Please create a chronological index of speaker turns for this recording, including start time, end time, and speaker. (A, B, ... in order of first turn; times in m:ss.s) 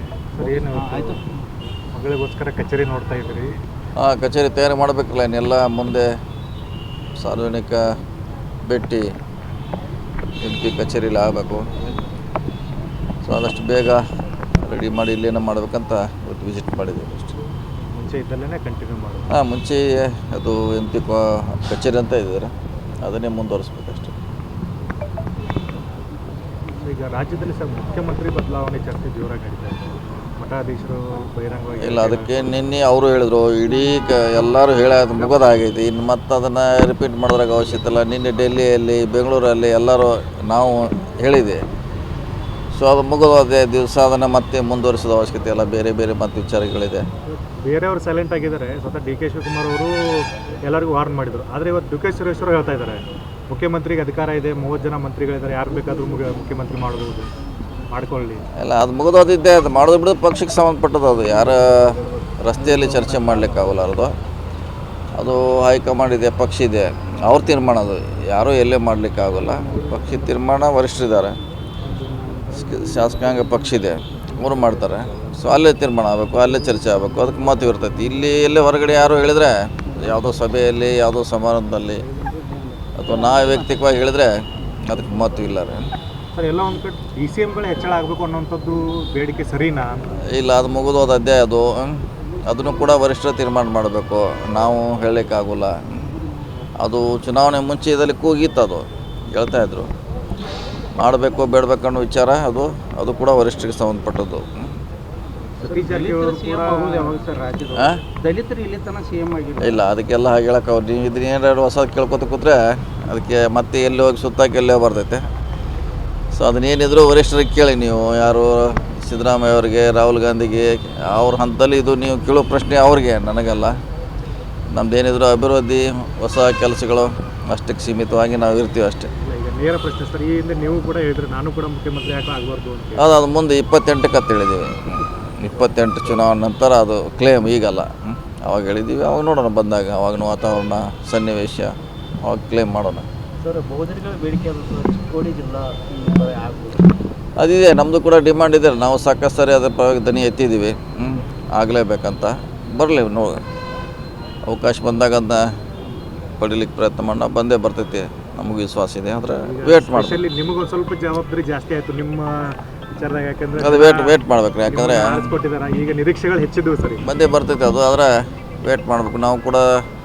0:00.4-0:01.2 A
0:00.4-0:01.3 B
0:01.9-0:03.5 A
0:04.0-0:06.1 C
0:07.2-0:07.8 C
0:08.7-0:09.1 C
0:10.4-0:11.6 C
0:13.2-0:14.0 C
0:14.6-0:17.3 C
0:17.9-0:19.3 A
0:19.3-0:22.5 C
0:23.0-0:24.1 C
0:26.8-0:29.9 A
0:30.4-0:32.4 A
0:31.8-0:41.6 C
0:42.8-0:47.0 C
0:47.6-0:50.0 A
0:50.6-0:57.3 A
0:57.9-0:58.4 A
0:58.6-1:01.8 C
1:02.4-1:04.1 C
1:05.2-1:11.4 C
1:12.0-1:12.5 B
1:12.5-1:22.0 C
1:22.2-1:23.6 B
1:23.0-1:24.3 C
1:24.9-1:25.8 C
1:26.3-1:29.9 A
1:30.3-1:36.0 C
1:36.8-1:39.9 C
1:41.0-1:44.7 C
1:45.6-1:49.8 B
1:45.6-1:47.2 A
1:47.7-1:48.0 C
1:49.6-1:55.2 C
1:56.3-2:03.8 C
2:04.7-2:09.1 C
2:09.2-2:13.0 A
2:13.0-2:23.0 C
2:23.4-2:26.9 B
2:27.4-2:33.4 C
2:34.5-2:35.5 C
2:36.4-2:40.2 C
2:39.4-2:44.2 A
2:43.6-2:45.3 C
2:44.7-2:47.0 A
2:47.0-2:48.1 C
2:48.6-2:49.7 C